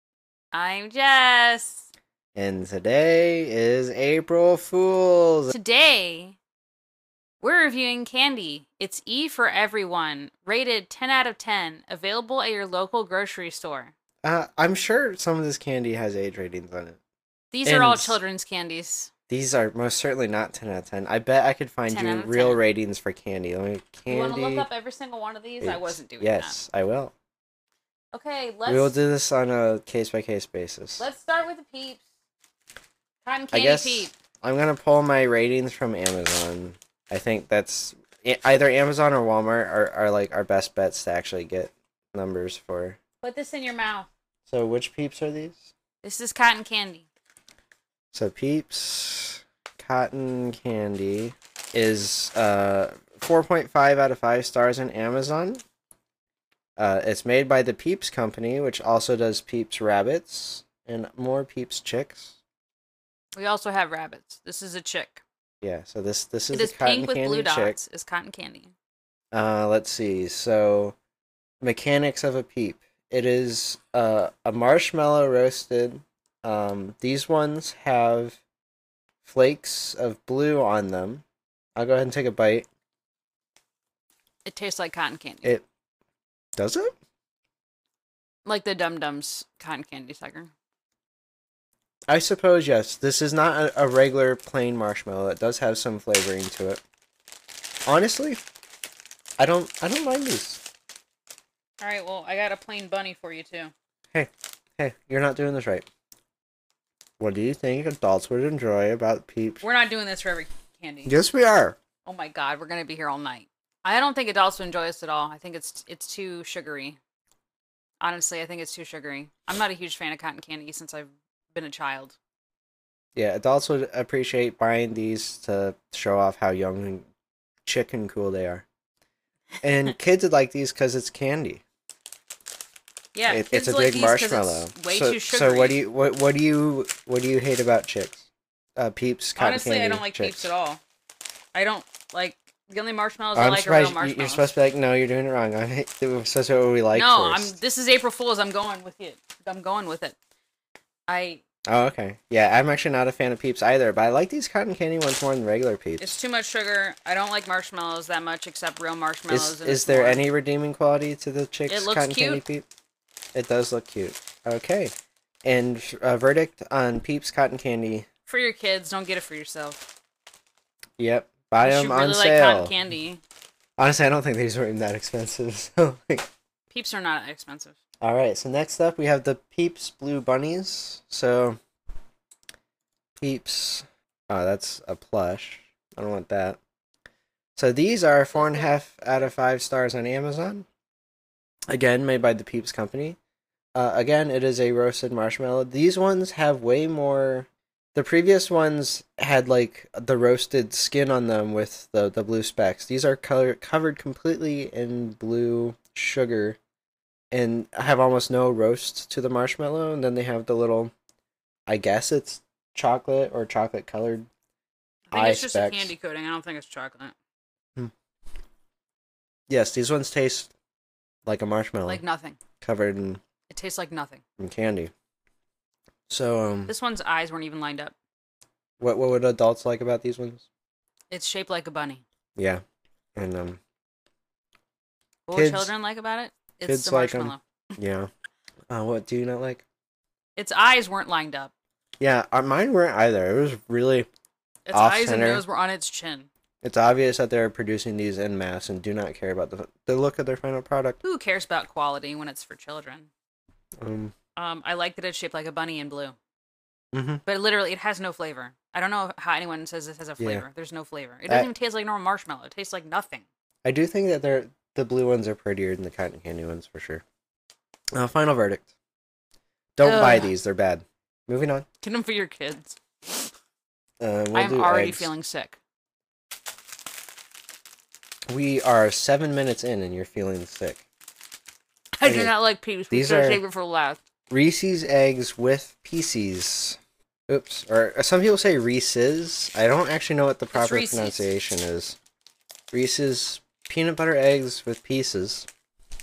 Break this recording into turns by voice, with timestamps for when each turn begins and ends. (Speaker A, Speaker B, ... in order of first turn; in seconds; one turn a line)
Speaker A: 0.5-1.9
Speaker B: 2.4-5.5
Speaker A: 5.5-6.4
Speaker A: 7.4-13.9
Speaker B: 14.2-17.0
Speaker A: 17.5-19.1
Speaker B: 17.6-18.2
Speaker B: 19.3-24.7
Speaker A: 21.9-22.6
Speaker A: 24.1-26.6
Speaker B: 25.6-27.1
Speaker A: 28.1-29.0
Speaker B: 28.7-31.1
Speaker A: 31.0-32.0
Speaker A: 33.2-34.1
Speaker B: 33.5-43.0
Speaker A: 43.2-44.1
Speaker B: 44.5-45.7
Speaker A: 46.0-47.1
Speaker B: 48.1-55.6
Speaker B: 56.8-62.4
Speaker A: 63.4-65.2
Speaker B: 65.6-67.8
Speaker A: 66.5-68.7
Speaker B: 69.3-71.0
Speaker B: 71.6-78.4
Speaker B: 79.2-81.2
Speaker B: 81.8-82.7
Speaker A: 84.5-85.6
Speaker B: 86.6-86.9
Speaker A: 88.5-90.5
Speaker B: 92.1-96.8
Speaker B: 97.9-98.4
Speaker B: 99.4-100.6
Speaker A: 101.8-103.7
Speaker B: 104.1-105.9
Speaker B: 107.2-109.6
Speaker A: 109.6-111.1
Speaker B: 111.1-111.8
Speaker A: 112.0-117.0
Speaker A: 118.0-122.2
Speaker B: 123.2-127.1
Speaker B: 127.7-128.7
Speaker B: 129.6-131.6
Speaker A: 133.2-135.8
Speaker B: 133.3-140.5
Speaker A: 139.4-140.8
Speaker A: 141.5-144.5
Speaker B: 143.3-147.6
Speaker A: 146.9-150.2
Speaker A: 151.1-151.4
Speaker B: 151.7-156.1
Speaker A: 156.0-160.2
Speaker B: 159.3-162.7
Speaker A: 161.7-162.4
Speaker B: 163.3-164.9
Speaker B: 165.4-168.1
Speaker A: 168.3-169.9
Speaker B: 171.0-172.7
Speaker A: 171.6-173.2
Speaker B: 173.8-176.3
Speaker A: 176.7-177.8
Speaker B: 178.0-181.6
Speaker B: 183.2-186.6
Speaker B: 187.6-190.7
Speaker A: 188.4-188.7
Speaker B: 191.7-193.2
Speaker B: 193.8-206.6
Speaker B: 207.3-210.9
Speaker B: 211.7-214.3
Speaker A: 215.1-217.2
Speaker B: 215.1-215.9
Speaker B: 219.5-220.5
Speaker B: 221.3-222.0
Speaker A: 221.9-222.4
Speaker B: 222.6-223.2
Speaker A: 223.5-224.2
Speaker B: 224.4-224.9
Speaker B: 226.1-226.7
Speaker A: 226.7-227.9
Speaker B: 228.8-230.5
Speaker A: 231.1-232.0
Speaker B: 232.4-232.6
Speaker B: 233.2-233.6
Speaker A: 235.3-237.4
Speaker B: 235.3-235.7
Speaker B: 236.7-238.1
Speaker B: 238.7-239.7
Speaker A: 240.4-241.5
Speaker B: 242.0-244.1
Speaker A: 244.7-246.3
Speaker B: 244.7-245.4
Speaker B: 246.6-251.0
Speaker A: 251.0-253.1
Speaker B: 253.8-254.1
Speaker A: 254.4-256.2
Speaker B: 256.9-257.2
Speaker A: 257.3-263.2
Speaker B: 260.2-260.4
Speaker B: 263.6-267.0
Speaker B: 267.9-268.7
Speaker B: 269.8-271.7
Speaker A: 269.8-270.3
Speaker A: 271.8-273.3
Speaker B: 274.0-275.1
Speaker A: 274.3-275.6
Speaker B: 278.3-280.8
Speaker A: 282.0-284.0
Speaker B: 282.0-282.3
Speaker B: 282.9-283.4
Speaker B: 284.3-292.0
Speaker A: 290.5-291.3
Speaker B: 292.7-295.5